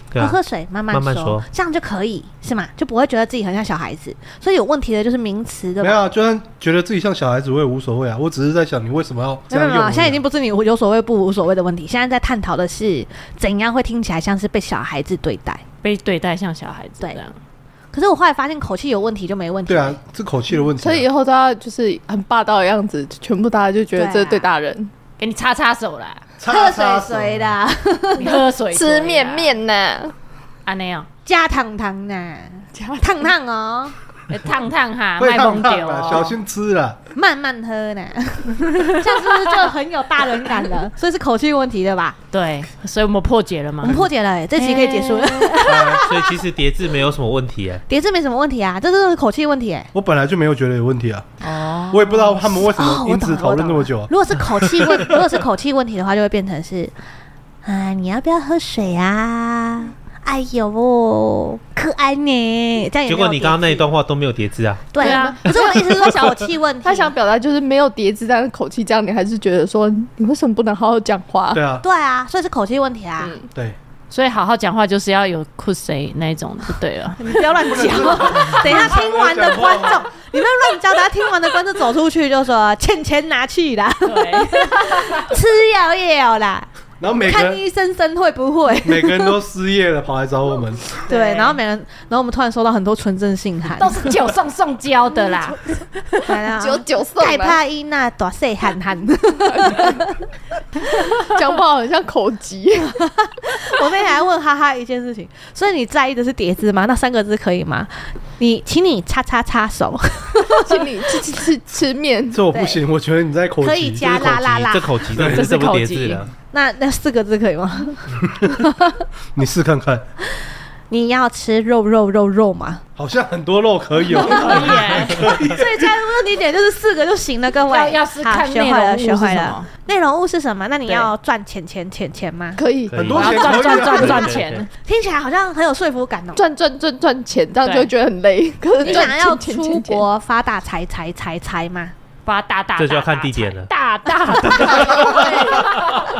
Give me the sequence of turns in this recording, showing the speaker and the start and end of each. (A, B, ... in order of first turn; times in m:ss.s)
0:00.2-0:06.0 A
0:00.9-0:01.5 B
0:05.8-0:10.2 C
0:09.5-0:15.6 A
0:15.8-0:17.4 D
0:17.9-0:20.0 A
0:19.7-0:21.1 C
0:20.8-0:24.9 E
0:23.9-0:24.5 A
0:25.2-0:26.2 D
0:26.4-0:27.6 C
0:26.5-0:28.4 A
0:28.2-0:29.6 D
0:28.7-0:30.1 E
0:30.6-0:31.1 D
0:31.2-0:33.9 A
0:32.8-0:33.2 E
0:34.3-0:36.3 D
0:35.2-0:37.0 C
0:37.1-0:42.2 A
0:39.1-0:39.7 D
0:42.3-0:44.0 D
0:43.8-0:46.3 A
0:44.6-0:45.7 D
0:45.7-0:47.8 B
0:45.7-0:46.0 C
0:47.9-0:49.9 A
0:49.9-0:54.1 C
0:51.4-0:52.5 D
0:52.7-0:56.9 A
0:57.6-1:03.9 A
1:03.0-1:05.1 B
1:04.9-1:07.1 A
1:05.0-1:05.4 D
1:05.0-1:06.3 E
1:05.6-1:06.2 B
1:06.8-1:11.6 E
1:11.5-1:11.8 C
1:11.8-1:13.3 A
1:13.2-1:13.5 E
1:14.1-1:17.4 D
1:17.2-1:26.7 A
1:17.6-1:20.0 C
1:24.0-1:25.3 D
1:27.0-1:27.6 C
1:27.2-1:29.4 A
1:28.8-1:30.9 C
1:31.1-1:34.1 A
1:31.1-1:31.6 D
1:33.8-1:36.2 D
1:36.2-1:40.1 A
1:36.5-1:37.6 E
1:39.6-1:39.9 E
1:41.2-1:43.0 E
1:43.2-1:51.2 A
1:50.6-1:52.4 E
1:52.3-1:54.4 C
1:52.5-1:52.8 A
1:53.6-1:55.0 A
1:54.0-1:56.3 B
1:55.1-1:55.5 C
1:55.2-1:56.2 D
1:56.5-1:59.0 A
1:59.4-2:00.0 C
2:00.4-2:02.8 A
2:03.0-2:05.9 C
2:04.1-2:05.2 D
2:04.1-2:12.6 A
2:07.7-2:09.7 D
2:12.6-2:13.4 E
2:12.9-2:13.4 B
2:12.9-2:14.3 C
2:13.2-2:14.7 D
2:13.4-2:16.4 A
2:13.9-2:14.6 B
2:16.4-2:20.0 E
2:17.6-2:17.9 D
2:18.8-2:21.9 A
2:18.8-2:19.1 D
2:22.2-2:26.0 D
2:22.8-2:23.7 B
2:24.4-2:26.0 B
2:24.5-2:25.5 A
2:24.9-2:25.6 E